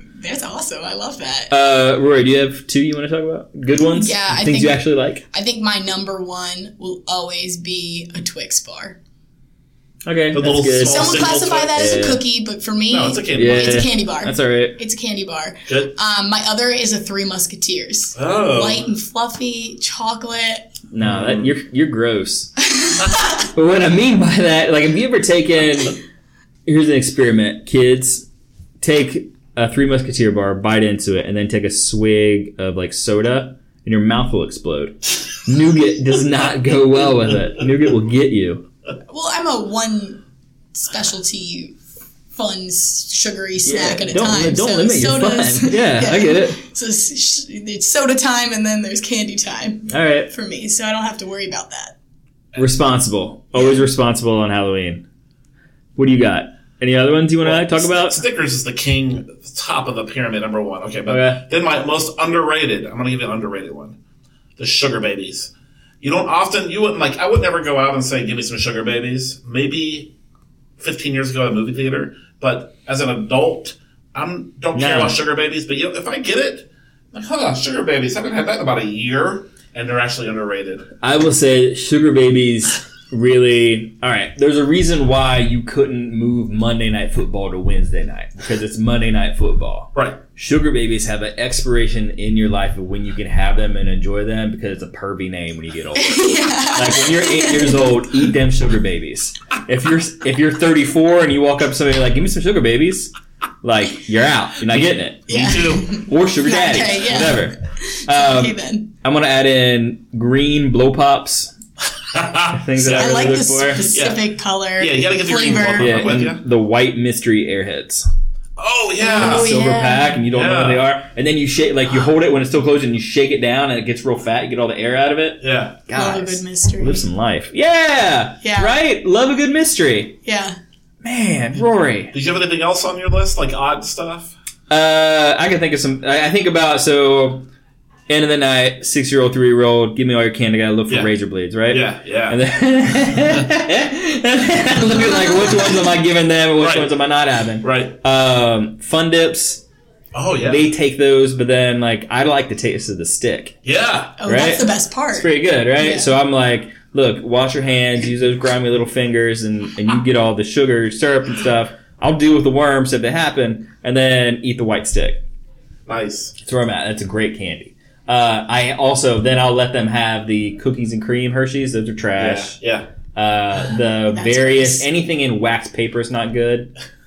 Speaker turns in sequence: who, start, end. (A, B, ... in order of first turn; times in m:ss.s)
0:00.2-0:01.5 A
0:01.5-0:05.2 B
0:03.8-0:09.0 A
0:10.0-0:11.2 B
0:10.3-0:11.8 C
0:10.8-0:20.7 A
0:11.7-0:12.2 B
0:12.9-0:13.8 C
0:13.3-0:14.8 B
0:15.7-0:15.9 C
0:18.2-0:18.8 C
0:20.9-0:22.5 B
0:21.0-0:21.5 C
0:22.8-0:23.4 A
0:23.5-0:26.0 B
0:26.6-0:28.2 B
0:28.8-0:38.6 B
0:39.1-0:40.2 A
0:40.7-0:41.8 A
0:42.3-0:51.9 A
0:43.6-0:46.6 B
0:49.9-0:50.3 B
0:52.6-0:55.0 B
0:56.0-0:58.2 B
0:57.4-1:04.0 C
1:01.0-1:01.4 B
1:04.6-1:10.1 C
1:10.8-1:20.9 C
1:14.7-1:15.2 B
1:21.0-1:43.1 B
1:29.9-1:30.2 C
1:36.0-1:38.1 A
1:43.6-1:45.3 B
1:45.3-1:46.0 C
1:45.3-1:48.9 A
1:46.1-1:51.5 B
1:52.1-1:53.3 C
1:52.5-1:53.9 B
1:52.9-1:56.1 A
1:53.9-1:54.2 C
1:54.8-1:56.4 C
1:55.8-1:58.1 B
1:58.6-1:59.5 C
1:59.0-2:00.1 A
1:59.1-2:10.2 B
2:00.3-2:00.8 C
2:05.4-2:05.8 C
2:05.9-2:07.0 A
2:08.4-2:08.8 A
2:10.2-2:10.6 A
2:11.0-2:12.1 B
2:12.1-2:14.3 C
2:14.7-2:17.5 B
2:18.1-2:29.6 B
2:21.7-2:22.4 C
2:25.1-2:25.8 A
2:26.6-2:26.9 C
2:27.6-2:28.0 C
2:30.1-2:30.6 C
2:30.4-2:33.5 B
2:33.6-2:34.2 C
2:34.2-2:36.1 A
2:34.2-2:45.2 B
2:45.9-2:46.3 C
2:46.4-2:52.5 B
2:52.2-2:52.9 C
2:53.1-2:56.7 B
2:54.1-2:54.8 A